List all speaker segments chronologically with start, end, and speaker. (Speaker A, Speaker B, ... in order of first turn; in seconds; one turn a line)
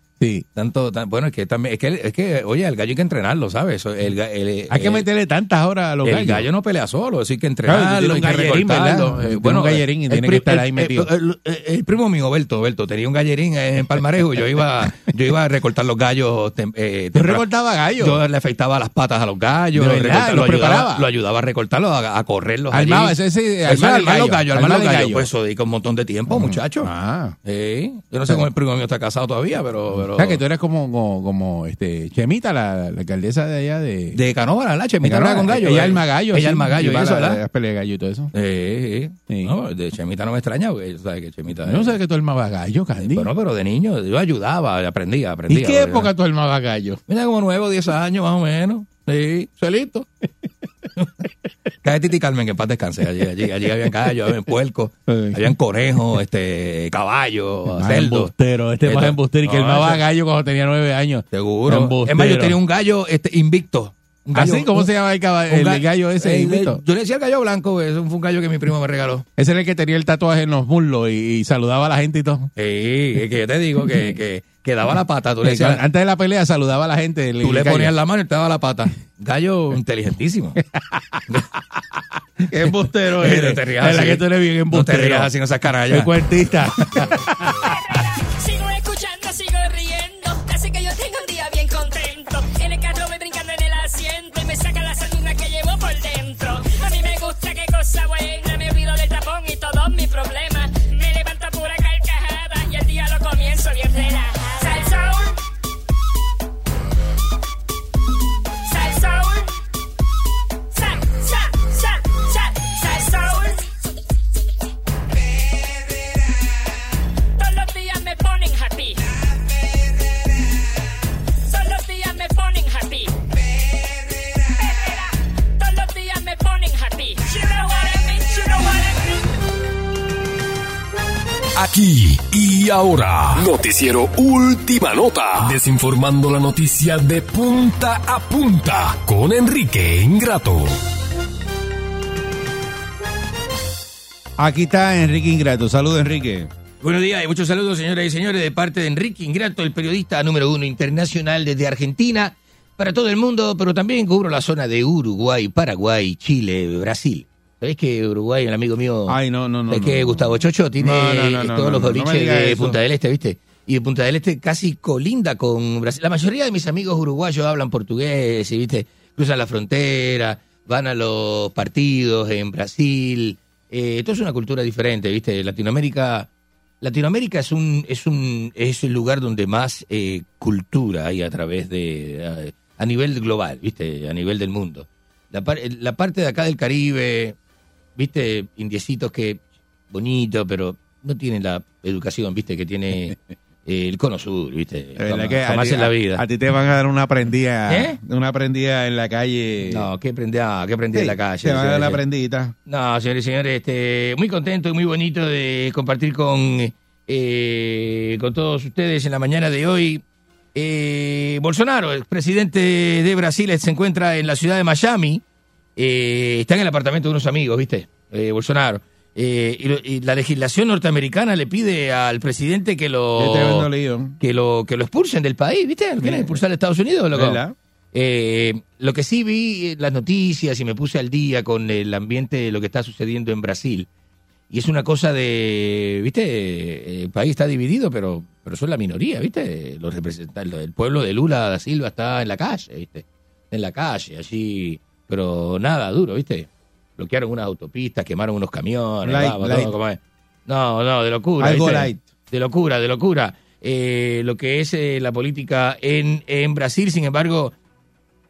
Speaker A: 0.2-0.5
Speaker B: 0.6-5.0
Speaker A: 4.7-6.5
Speaker B: 6.0-17.4
Speaker A: 7.7-11.1
Speaker A: 17.1-18.2
Speaker B: 18.0-26.9
Speaker A: 19.8-21.1
Speaker A: 22.7-25.3
Speaker A: 26.3-27.4
Speaker B: 27.5-30.4
Speaker A: 30.0-34.2
Speaker B: 34.1-37.4
Speaker A: 35.0-38.3
Speaker B: 38.3-42.0
Speaker A: 41.6-43.3
Speaker B: 43.0-46.1
Speaker A: 45.5-47.0
Speaker B: 47.1-50.0
Speaker B: 51.8-58.3
Speaker A: 55.1-55.5
Speaker A: 57.7-62.6
Speaker B: 58.9-60.0
Speaker B: 61.3-64.9
Speaker A: 64.3-66.8
Speaker B: 65.5-69.2
Speaker A: 69.4-72.5
Speaker B: 72.6-75.8
Speaker A: 75.4-77.9
Speaker B: 77.4-80.6
Speaker A: 80.8-81.2
Speaker A: 82.5-85.3
Speaker B: 83.2-86.1
Speaker A: 85.9-87.5
Speaker C: 87.9-105.4
Speaker C: 108.7-109.5
Speaker C: 110.7-113.6
Speaker C: 115.4-116.1
Speaker C: 117.4-119.0
Speaker C: 121.5-123.2
Speaker C: 123.8-129.2
Speaker D: 131.6-140.8
Speaker A: 144.4-146.5
Speaker B: 146.8-159.2
Speaker A: 159.1-162.8
Speaker B: 159.7-176.3
Speaker B: 176.8-187.4
Speaker B: 188.0-189.4
Speaker B: 189.9-196.2
Speaker A: 195.0-199.9
Speaker B: 197.7-198.0
Speaker B: 199.7-202.0
Speaker A: 200.9-202.5
Speaker B: 202.7-210.0
Speaker B: 210.6-215.2
Speaker B: 215.8-223.7
Speaker A: 223.2-224.2
Speaker B: 224.2-227.4
Speaker A: 226.0-226.4
Speaker A: 227.1-227.6
Speaker B: 227.9-233.9
Speaker B: 234.5-257.5
Speaker A: 249.0-249.7
Speaker A: 251.4-252.0